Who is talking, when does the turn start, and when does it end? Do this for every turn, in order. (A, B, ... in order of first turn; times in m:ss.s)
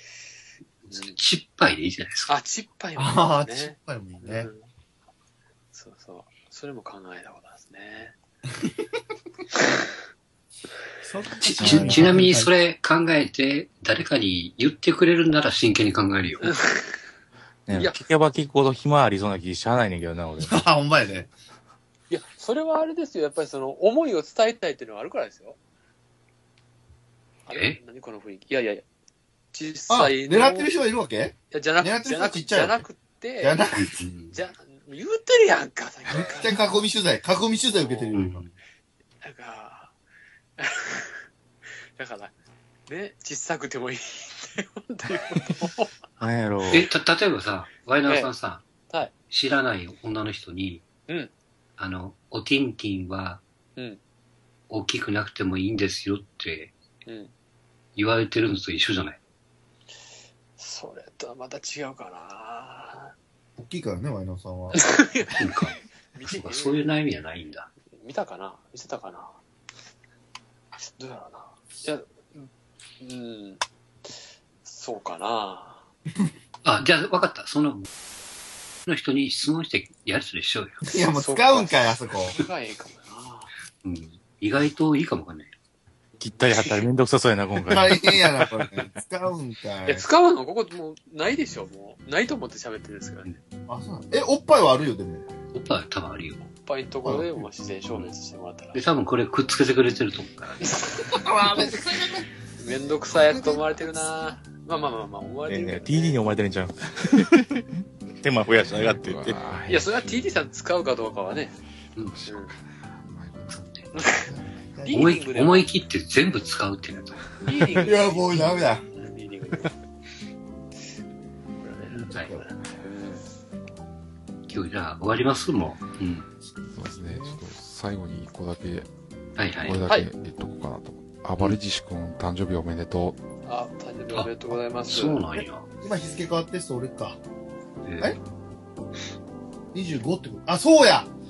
0:00.8-0:02.3 A
0:00.9-0:01.2 B
0:02.3-0:04.6 B
0:03.0-0:04.5 C
0:05.7-0:08.2 B
0:09.6-0:09.8 B
0:11.0-0:12.5 C
0:11.4-0:16.6 A
0:11.6-0:12.1 D
0:16.4-0:17.0 B
0:17.7-0:20.6 E
0:17.7-0:18.0 B
0:20.4-0:21.3 C
0:22.1-0:25.6 B
0:27.5-0:28.8 B
0:27.5-0:27.8 A
0:29.5-0:30.7 B
0:29.9-0:32.8 C
0:31.5-0:33.6 B
0:33.4-0:34.0 C
0:33.8-0:34.4 A
0:34.3-0:36.8 B
0:36.1-0:38.4 C
0:37.7-0:38.2 B
0:38.1-0:38.5 A
0:39.2-0:39.9 B
0:40.6-0:41.3 B
0:42.0-0:42.3 B
0:42.9-0:46.0 B
0:46.2-0:46.9 E
0:46.7-0:48.6 A
0:48.1-0:48.3 B
0:49.3-0:50.8 A
0:51.8-0:53.4 A
0:54.7-0:56.8 A
0:57.0-0:57.3 B
0:58.0-0:59.2 A
1:00.6-1:03.1 B
1:03.6-1:04.8 C
1:04.7-1:06.9 B
1:05.4-1:07.7 A
1:07.9-1:09.4 B
1:10.8-1:12.5 B
1:13.0-1:14.1 B
1:14.6-1:15.8 B
1:16.6-1:17.9 A
1:18.9-1:20.8 A
1:20.8-1:22.4 C
1:21.1-1:23.5 B
1:23.8-1:25.5 A
1:26.2-1:28.2 E
1:27.7-1:30.1 C
1:29.9-1:33.3 B
1:33.7-1:35.2 C
1:35.5-1:36.4 A
1:36.4-1:38.8 B
1:38.7-1:40.7 A
1:40.6-1:41.1 B
1:41.1-1:44.1 C
1:42.6-1:46.3 B
1:45.5-1:47.6 E
1:48.2-1:49.6 E
1:48.7-1:50.5 D
1:49.7-1:51.6 B
1:52.0-1:54.1 D
1:52.3-1:52.6 B
1:53.5-1:53.8 A
1:53.9-1:54.3 B
1:54.2-1:55.2 C
1:54.8-1:55.7 B
1:54.9-1:57.4 A
1:57.4-1:59.8 B
1:57.8-1:58.8 C
2:01.6-2:03.3 B
2:01.9-2:02.4 C
2:04.5-2:06.3 A
2:06.7-2:08.9 D
2:06.9-2:07.4 C
2:09.4-2:09.9 A
2:09.6-2:13.2 D
2:13.4-2:15.2 B
2:14.9-2:15.7 A
2:15.8-2:17.2 C
2:17.8-2:18.2 A
2:19.7-2:21.1 C